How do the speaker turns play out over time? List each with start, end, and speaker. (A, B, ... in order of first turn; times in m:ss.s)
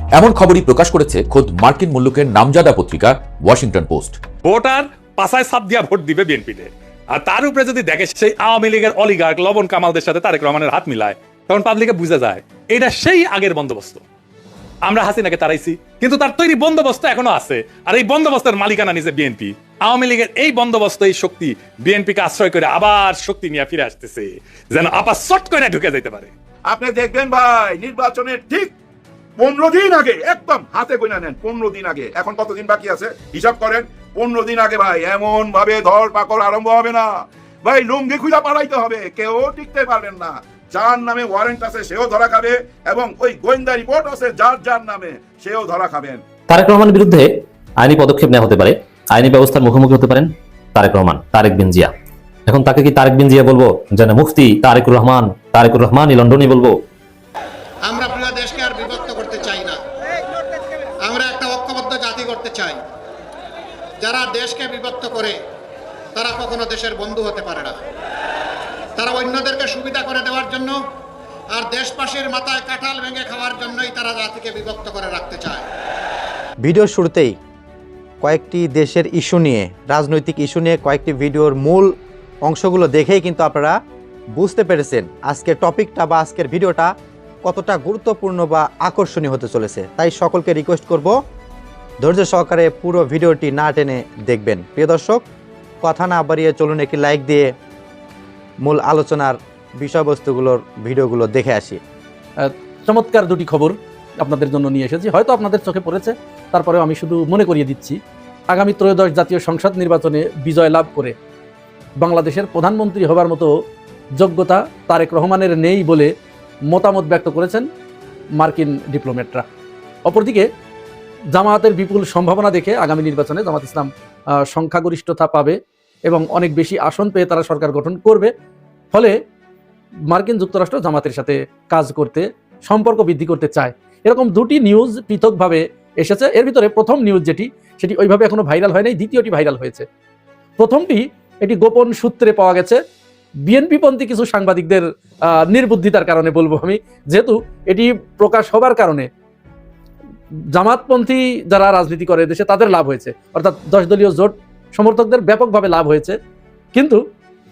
0:00.1-0:04.2 A
0:04.4-0:14.0 B
0:14.8-0:26.3 B
0:26.7-0:28.7 C
0:29.4-0:46.2 C
0:46.5-0:47.3 D
0:47.8-0:51.9 D
0:52.5-0:56.7 D
0:57.8-0:59.8 E
1:01.0-1:02.8 E
1:04.0-1:05.4 E
1:06.2-1:07.8 E
1:09.0-1:10.8 E
1:11.5-1:15.7 E
1:16.6-1:17.4 F
1:18.2-1:23.8 F
1:24.4-1:26.9 F
1:27.4-1:31.2 F
1:32.0-1:35.2 F
1:35.8-1:37.5 F
1:38.6-1:41.8 F
1:42.4-1:48.0 G
1:48.5-1:51.1 G
1:52.0-1:53.5 G
1:54.2-1:56.1 G
1:56.7-1:57.7 G
1:58.4-1:59.4 G
2:00.1-2:00.5 G
2:01.3-2:03.9 G
2:04.5-2:08.3 G
2:10.1-2:19.9 G
2:20.6-2:22.8 G
2:23.5-2:29.1 G
2:30.5-2:36.2 G
2:36.7-2:37.0 G